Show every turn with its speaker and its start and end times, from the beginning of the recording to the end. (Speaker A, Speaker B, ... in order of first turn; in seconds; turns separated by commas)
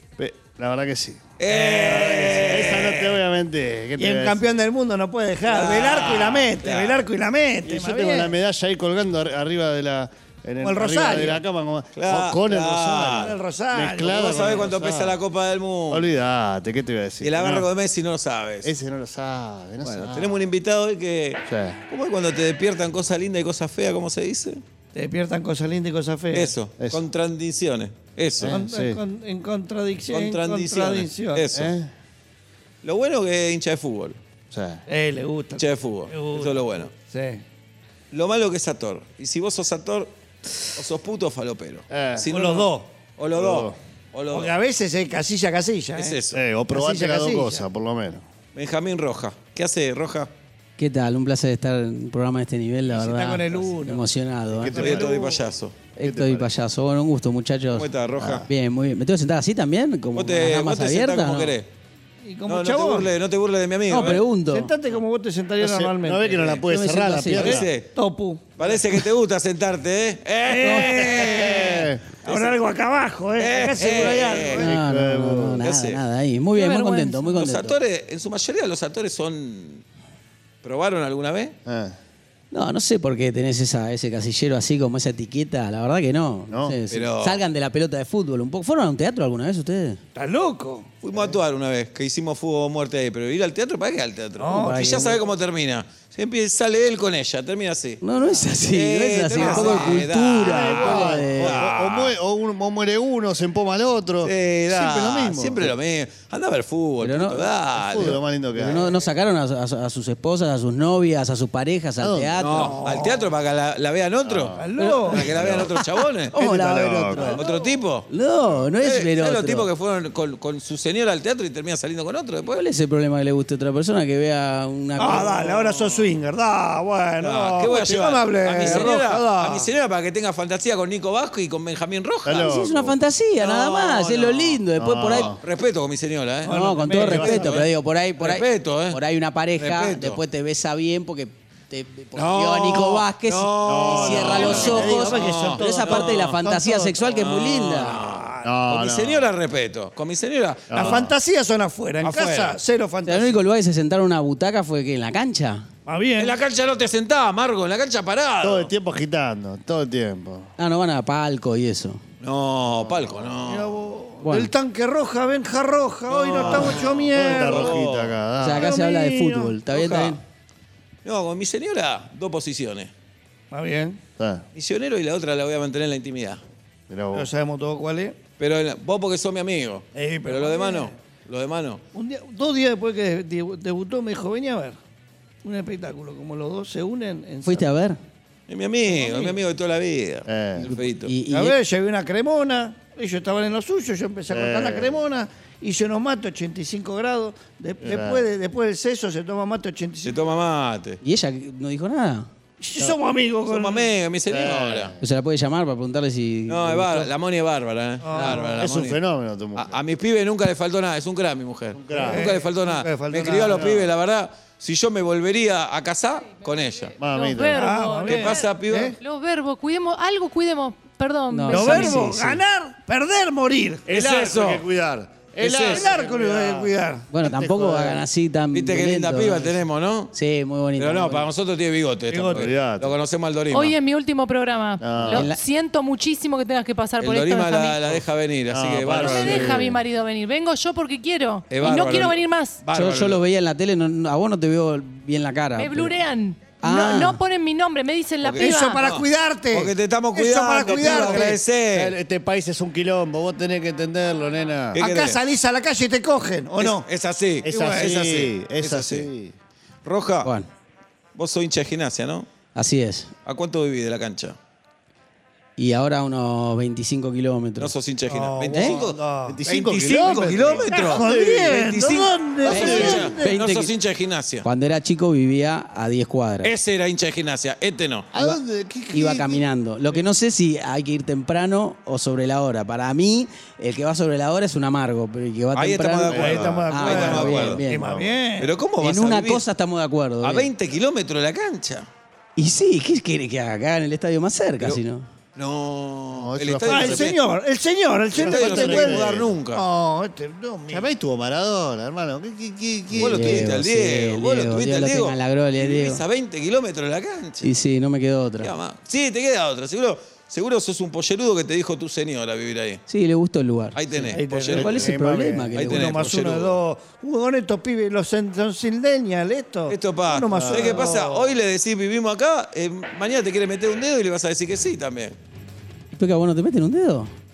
Speaker A: 0.2-1.2, Speaker B: 1.4-3.2, Speaker C: 1.5-2.8, Speaker A: 1.7-4.4, Speaker C: 4.0-8.3, Speaker B: 5.5-7.0, Speaker A: 7.6-15.2, Speaker C: 10.6-11.4, Speaker B: 11.9-13.3, Speaker C: 13.2-14.7, Speaker B: 14.1-16.1, Speaker A: 15.9-17.7, Speaker B: 17.2-18.7, Speaker A: 18.6-20.4, Speaker B: 19.8-24.6, Speaker A: 21.5-21.8, Speaker C: 24.9-26.5, Speaker B: 26.3-28.6, Speaker A: 28.4-29.0, Speaker C: 28.4-31.4, Speaker B: 30.1-31.7, Speaker A: 31.5-31.9, Speaker B: 32.8-34.2, Speaker A: 34.5-34.8, Speaker C: 34.9-37.4, Speaker B: 35.6-36.9, Speaker B: 38.1-40.1, Speaker B: 40.7-44.5, Speaker A: 41.9-42.2, Speaker C: 42.3-42.9, Speaker A: 43.3-43.8, Speaker C: 44.3-46.1, Speaker B: 46.0-46.4, Speaker A: 46.3-48.2, Speaker C: 46.7-47.6, Speaker B: 48.5-50.3, Speaker D: 50.8-54.8, Speaker C: 53.1-54.0, Speaker A: 54.5-55.1, Speaker C: 54.7-55.4, Speaker B: 54.7-55.8, Speaker D: 56.0-61.6, Speaker A: 56.0-56.5, Speaker B: 57.7-58.5, Speaker B: 60.1-61.7, Speaker C: 62.2-63.1, Speaker B: 62.5-64.2, Speaker D: 63.9-64.7, Speaker C: 64.5-66.5, Speaker A: 65.6-67.7, Speaker D: 66.6-67.6, Speaker B: 67.3-67.9, Speaker C: 67.5-68.8, Speaker B: 68.5-72.6, Speaker C: 70.5-74.8, Speaker D: 70.6-71.1, Speaker A: 71.2-72.0, Speaker B: 73.4-74.7, Speaker D: 74.6-77.8, Speaker A: 74.6-75.6, Speaker B: 75.6-76.0, Speaker E: 76.5-77.3, Speaker B: 77.3-79.8, Speaker B: 80.6-81.5, Speaker A: 81.6-82.0, Speaker D: 82.5-90.0, Speaker A: 86.5-86.8, Speaker B: 86.9-87.4, Speaker C: 90.1-90.9, Speaker B: 91.0-98.0, Speaker C: 94.4-95.2, Speaker D: 94.6-95.1, Speaker D: 98.0-101.6, Speaker B: 98.7-102.1, Speaker A: 99.4-105.7, Speaker B: 104.2-108.2, Speaker D: 107.0-107.5, Speaker A: 107.8-108.9, Speaker D: 108.5-112.8, Speaker A: 112.0-112.3, Speaker B: 112.4-116.3, Speaker C: 112.5-113.3, Speaker A: 114.2-115.7, Speaker C: 114.6-115.3, Speaker D: 114.8-117.4, Speaker A: 116.3-117.4, Speaker B: 117.3-118.1, Speaker D: 118.1-119.7, Speaker B: 118.8-122.5, Speaker D: 122.5-125.3, Speaker C: 125.0-129.7, Speaker B: 125.0-126.2, Speaker B: 127.2-132.5, Speaker A: 132.2-132.9, Speaker D: 132.4-135.3, Speaker B: 133.4-134.6, Speaker A: 134.8-135.4, Speaker B: 135.2-139.0, Speaker C: 136.4-137.5, Speaker D: 136.5-148.0, Speaker A: 137.1-137.4, Speaker B: 139.6-140.2, Speaker B: 142.1-146.4, Speaker A: 143.7-144.9, Speaker C: 144.1-147.2, Speaker B: 147.1-151.0, Speaker C: 147.8-148.5, Speaker A: 148.4-149.3, Speaker A: 150.7-151.1, Speaker C: 150.7-153.4, Speaker B: 152.0-152.6, Speaker D: 153.0-155.6, Speaker C: 155.8-156.4, Speaker B: 156.2-158.7, Speaker A: 158.4-160.5, Speaker D: 160.6-162.0, Speaker B: 162.2-163.7, Speaker A: 162.8-163.3, Speaker C: 163.4-167.8, Speaker D: 164.2-164.5, Speaker B: 166.1-168.2, Speaker A: 166.3-168.7, Speaker D: 168.4-170.2, Speaker C: 168.5-169.6, Speaker B: 169.7-170.2, Speaker B: 171.0-172.9, Speaker C: 173.5-174.0, Speaker A: 174.2-174.4, Speaker B: 174.5-176.4, Speaker A: 176.9-177.3, Speaker C: 177.1-178.2, Speaker B: 178.4-181.8, Speaker C: 179.9-180.9, Speaker C: 181.9-184.8, Speaker C: 185.4-187.6, Speaker D: 187.4-188.0, Speaker B: 188.5-191.1, Speaker C: 188.9-189.4, Speaker A: 190.2-190.8, Speaker D: 191.0-191.6, Speaker C: 191.3-200.2, Speaker A: 194.3-195.0, Speaker A: 197.8-198.2, Speaker B: 200.0-201.0, Speaker D: 201.0-202.3, Speaker C: 202.6-203.9, Speaker B: 203.4-204.9, Speaker A: 204.2-205.0, Speaker D: 205.0-207.1, Speaker B: 206.5-209.0, Speaker C: 208.0-208.6, Speaker A: 208.2-209.8, Speaker B: 209.6-217.0, Speaker A: 211.7-212.3, Speaker C: 211.9-213.9, Speaker A: 217.0-217.6, Speaker E: 217.1-221.8, Speaker C: 217.5-218.9, Speaker B: 218.0-218.9, Speaker D: 221.3-222.4, Speaker C: 221.5-223.8, Speaker A: 223.8-228.0, Speaker B: 223.9-224.6, Speaker B: 225.4-225.9, Speaker C: 225.7-227.1, Speaker D: 227.1-231.3, Speaker B: 228.5-230.1, Speaker B: 230.8-233.7, Speaker C: 232.1-232.5, Speaker A: 232.3-232.9, Speaker E: 233.5-238.0, Speaker A: 234.8-235.3, Speaker D: 235.0-235.4, Speaker B: 237.0-239.6, Speaker A: 238.5-239.8, Speaker E: 239.0-242.6, Speaker B: 241.5-243.2, Speaker D: 242.7-245.9, Speaker E: 245.5-248.8, Speaker D: 246.6-247.2, Speaker B: 248.2-251.9, Speaker C: 248.4-251.4, Speaker A: 250.6-254.8, Speaker B: 254.7-255.2, Speaker C: 254.8-256.9, Speaker B: 256.6-259.1, Speaker A: 257.4-259.3, Speaker C: 257.5-257.9, Speaker B: 259.8-260.3, Speaker D: 260.2-260.5, Speaker B: 261.1-262.3, Speaker D: 262.5-263.1, Speaker B: 263.2-264.4, Speaker D: 265.6-267.7, Speaker B: 267.6-274.5, Speaker C: 268.1-269.4, Speaker D: 268.5-268.8, Speaker A: 269.2-271.6, Speaker C: 270.4-273.3, Speaker A: 272.4-273.1, Speaker D: 272.5-273.7, Speaker D: 274.4-276.5, Speaker B: 276.4-278.2, Speaker A: 278.1-279.4, Speaker D: 278.9-287.8, Speaker B: 285.5-287.6, Speaker A: 286.1-288.2, Speaker C: 286.1-288.5, Speaker B: 288.4-289.4, Speaker D: 288.8-290.5, Speaker B: 290.2-291.9, Speaker D: 292.4-295.1, Speaker B: 295.4-297.2, Speaker A: 296.1-297.1, Speaker C: 296.7-300.9, Speaker A: 298.1-299.4, Speaker B: 298.2-299.6, Speaker A: 300.7-303.5, Speaker B: 302.9-307.5, Speaker D: 302.9-306.0, Speaker D: 307.4-308.5, Speaker B: 308.4-312.8, Speaker D: 312.9-316.0, Speaker B: 313.7-314.8, Speaker C: 314.1-314.9, Speaker A: 314.5-315.5, Speaker B: 315.5-316.6, Speaker C: 315.6-321.3, Speaker B: 319.7-325.2, Speaker A: 320.3-320.9, Speaker D: 325.9-327.1